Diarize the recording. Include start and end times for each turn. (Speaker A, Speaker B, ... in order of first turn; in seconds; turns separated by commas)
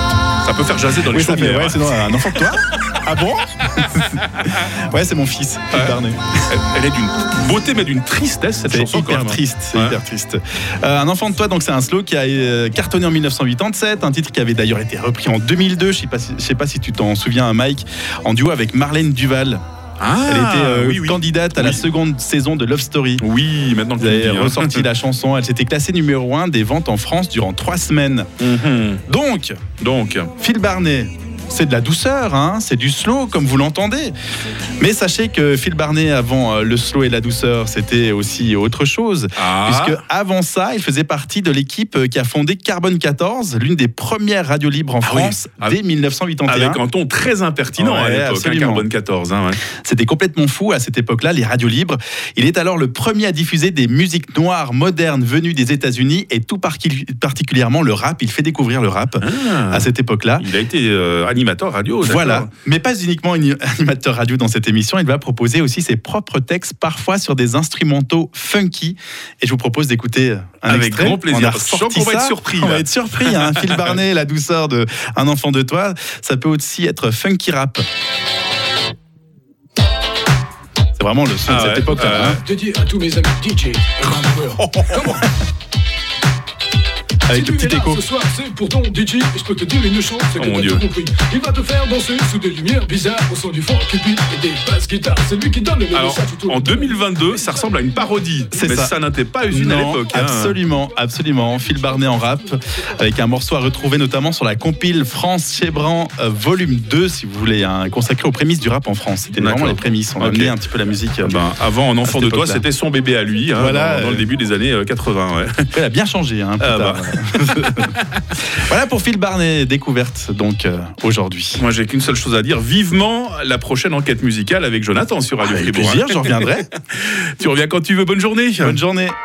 Speaker A: 0.4-2.0, Speaker B: 1.1-6.2, Speaker A: 5.7-6.0, Speaker A: 6.5-10.0, Speaker B: 8.7-19.6, Speaker A: 20.0-21.9, Speaker B: 20.3-23.2, Speaker A: 23.2-24.8, Speaker B: 24.0-28.3, Speaker A: 28.4-29.0, Speaker B: 29.1-29.6, Speaker A: 29.8-30.3, Speaker B: 30.4-34.1, Speaker B: 34.8-46.8, Speaker A: 39.4-40.0, Speaker A: 45.0-45.8, Speaker A: 46.5-49.6, Speaker B: 47.8-48.9, Speaker B: 49.6-60.5, Speaker A: 59.2-62.5, Speaker B: 62.0-77.8, Speaker A: 70.7-73.9, Speaker B: 81.0-82.4, Speaker A: 81.5-82.4, Speaker C: 82.4-85.3, Speaker B: 84.9-85.3, Speaker B: 87.3-88.0, Speaker C: 87.3-98.7, Speaker A: 90.4-90.9, Speaker A: 95.9-100.6, Speaker B: 98.5-98.9, Speaker B: 99.5-111.4, Speaker C: 101.7-102.9, Speaker A: 109.3-110.5, Speaker A: 111.2-115.7, Speaker B: 112.0-112.6, Speaker B: 113.5-114.3, Speaker B: 115.7-117.9, Speaker A: 116.6-118.2, Speaker B: 118.5-121.6, Speaker A: 121.5-126.4, Speaker B: 125.4-126.7, Speaker A: 126.9-128.8, Speaker B: 128.6-129.2